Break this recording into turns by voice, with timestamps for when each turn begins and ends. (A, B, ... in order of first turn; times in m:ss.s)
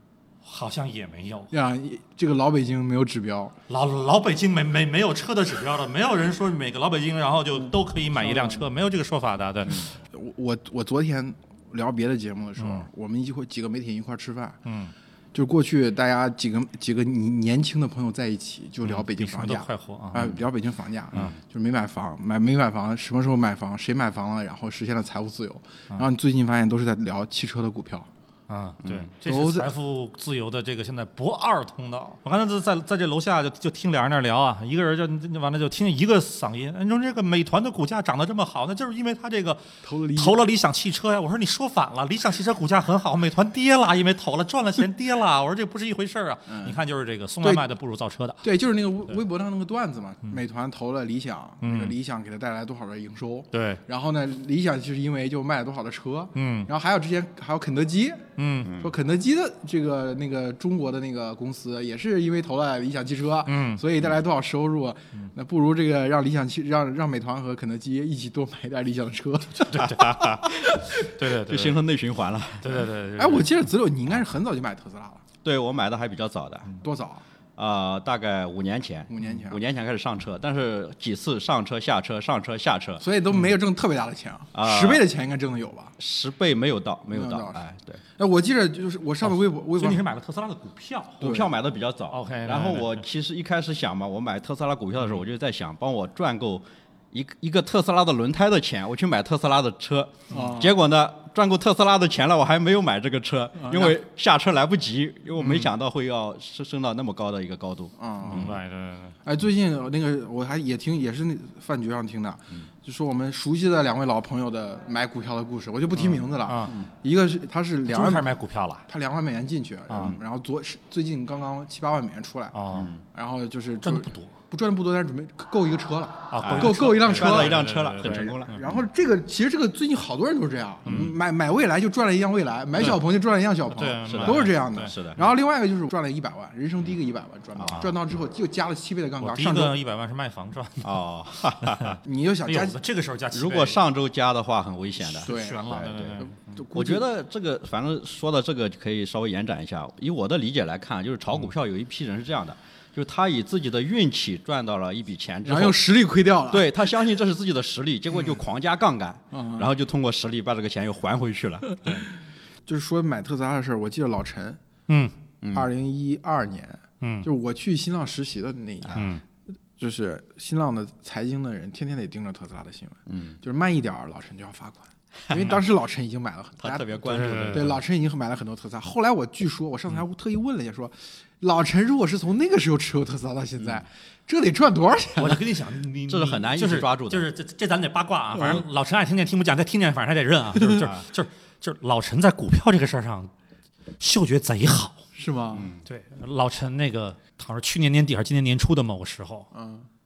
0:00.4-0:01.5 A
0:01.5-0:03.5 B
0:03.7-0:09.9 A
0:07.6-0:08.7 B
0:09.7-0:14.6 B
0:12.6-0:12.9 A
0:14.6-0:14.9 A
0:15.3-0:28.1 B
0:18.8-0:20.4 A
0:28.5-0:48.4 A
0:28.8-0:29.1 C
0:29.2-0:29.7 B
0:39.8-0:40.4 B
0:46.5-0:46.8 B
0:48.4-1:09.9 B
0:51.6-0:51.9 A
0:53.5-0:53.8 A
0:56.3-0:56.7 A
0:58.4-0:58.8 A
0:58.6-0:58.9 C
1:03.4-1:03.8 A
1:09.5-1:11.8 A
1:09.7-1:12.8 C
1:12.6-1:13.5 A
1:13.2-1:15.2 B
1:15.4-1:16.8 C
1:16.8-1:17.2 B
1:17.6-1:23.0 C
1:19.1-1:19.6 B
1:23.0-1:25.9 B
1:24.5-1:25.0 C
1:26.0-1:28.0 C
1:27.1-1:27.6 B
1:28.2-1:30.1 B
1:29.2-1:31.2 A
1:31.2-1:48.6 C
1:31.2-1:31.5 B
1:32.1-1:33.0 A
1:40.3-1:40.8 B
1:40.3-1:40.6 A
1:43.6-1:44.0 B
1:48.0-1:48.5 B
1:48.3-1:49.2 A
1:49.2-1:58.3 B
1:56.4-1:56.8 A
1:57.9-1:58.8 A
1:58.9-2:19.8 B
1:59.9-2:00.2 A
2:02.5-2:02.9 A
2:02.7-2:03.0 C
2:03.8-2:04.3 A
2:06.3-2:08.6 A
2:06.4-2:08.8 C
2:10.8-2:11.1 A
2:13.7-2:15.0 A
2:14.0-2:15.3 C
2:17.6-2:17.9 C
2:19.2-2:21.0 A
2:20.8-2:22.0 C
2:21.6-2:23.8 A
2:22.0-2:22.8 B
2:23.3-2:26.2 C
2:25.0-2:26.3 A
2:25.2-2:27.0 B
2:26.7-2:35.9 C
2:35.4-2:36.7 B
2:36.5-2:41.7 C
2:39.3-2:39.7 B
2:42.6-2:44.6 B
2:44.9-2:45.1 A
2:45.4-2:45.7 C
2:45.5-2:49.0 B
2:47.0-2:47.3 A
2:48.8-2:49.1 C
2:48.9-2:49.2 A
2:49.8-3:05.4 B
2:53.1-2:53.4 C
2:55.3-2:55.6 A
2:56.6-2:57.8 C
2:57.1-2:57.7 A
3:05.2-3:13.3 A
3:06.1-3:07.3 C
3:10.8-3:11.0 C
3:14.0-3:15.0 A
3:15.2-3:15.7 B
3:15.5-3:15.8 C
3:15.8-3:19.5 A
3:19.5-3:19.9 B